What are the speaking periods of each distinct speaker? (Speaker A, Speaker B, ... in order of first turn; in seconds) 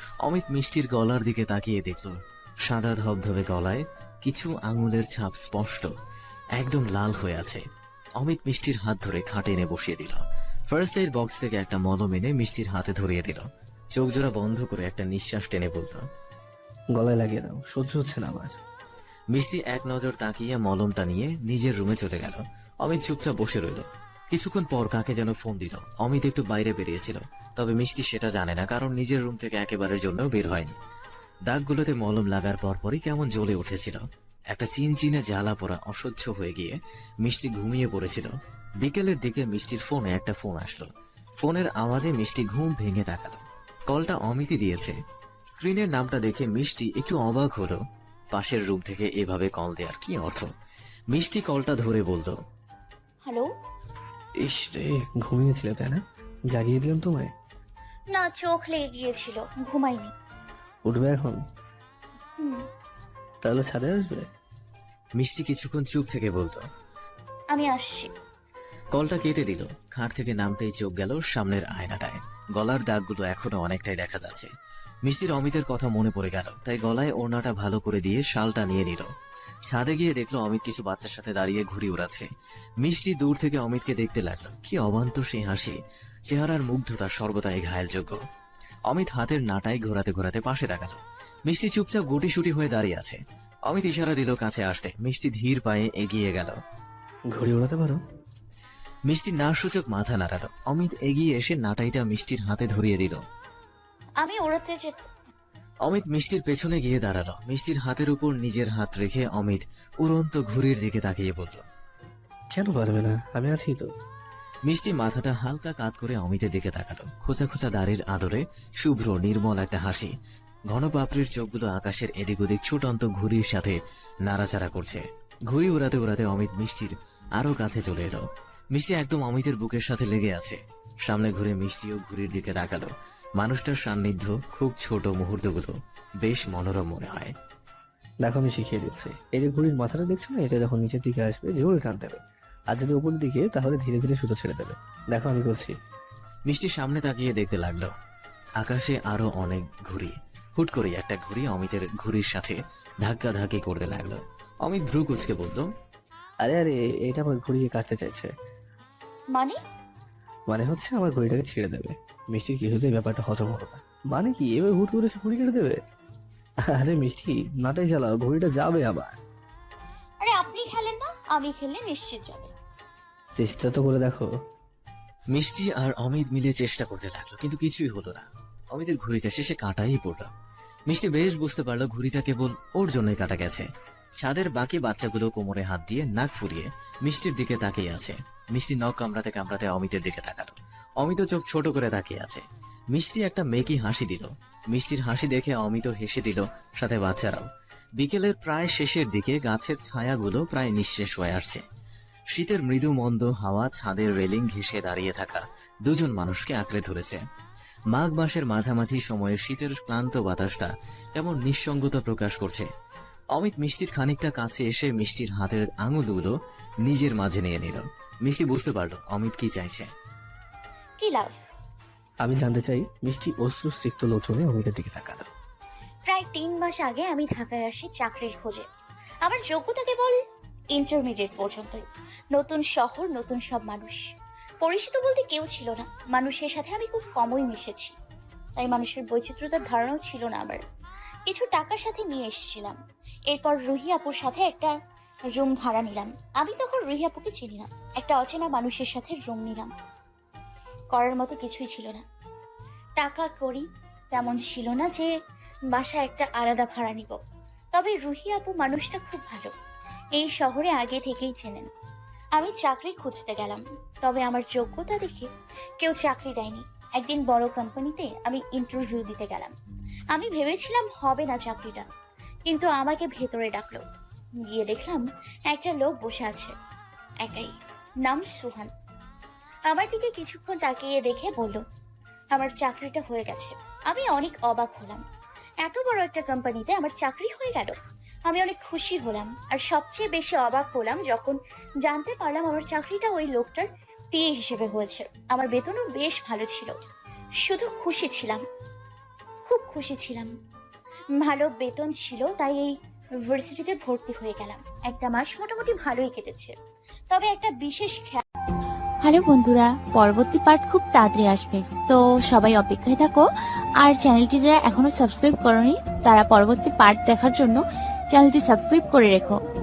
Speaker A: 0.2-5.9, 6.6-7.6, 8.2-16.0, 19.3-30.8, 31.5-34.0, 34.5-40.9, 41.4-44.9, 45.5-47.8, 48.3-50.5, 51.1-52.4, 65.2-66.6, 68.9-74.5, 75.0-79.1, 79.7-82.3, 82.8-85.8, 86.3-88.2, 88.9-96.5, 99.1-103.2, 105.8-111.6, 114.7-120.1, 120.7-137.3, 146.5-147.9, 148.6-155.7, 175.3-180.3, 180.9-183.7, 184.2-197.5, 198.0-201.6, 202.3-207.2, 207.9-212.7, 213.3-219.9
Speaker B: 16.9-18.6, 54.4-57.3, 60.9-61.4, 63.4-64.3, 97.3-98.0, 112.5-113.9, 138.2-142.2, 142.7-145.8, 156.4-158.3, 160.5-165.8, 166.7-169.2, 173.4-174.3, 222.2-225.3
Speaker C: 53.2-53.5, 58.1-60.1, 67.5-68.1, 104.2-105.0, 170.2-172.5, 221.0-221.4, 226.1-228.7, 229.2-230.2, 230.7-234.0, 234.6-238.0, 238.6-240.6, 241.3-242.8, 243.3-244.7, 245.3-249.7, 250.9-252.0, 253.0-255.1, 255.7-257.2, 257.7-259.5, 260.1-261.7, 262.4-265.3, 265.8-269.5, 270.1-271.9, 272.5-273.8, 274.5-276.5, 277.2-277.5, 278.1-278.7, 279.7-281.6, 282.3-285.0, 285.6-287.7, 288.3-296.7, 297.5-298.4, 299.5-300.3, 301.2-302.7, 303.3-306.5, 307.1-308.2
Speaker D: 309.0-313.3, 313.8-317.6, 318.1-319.4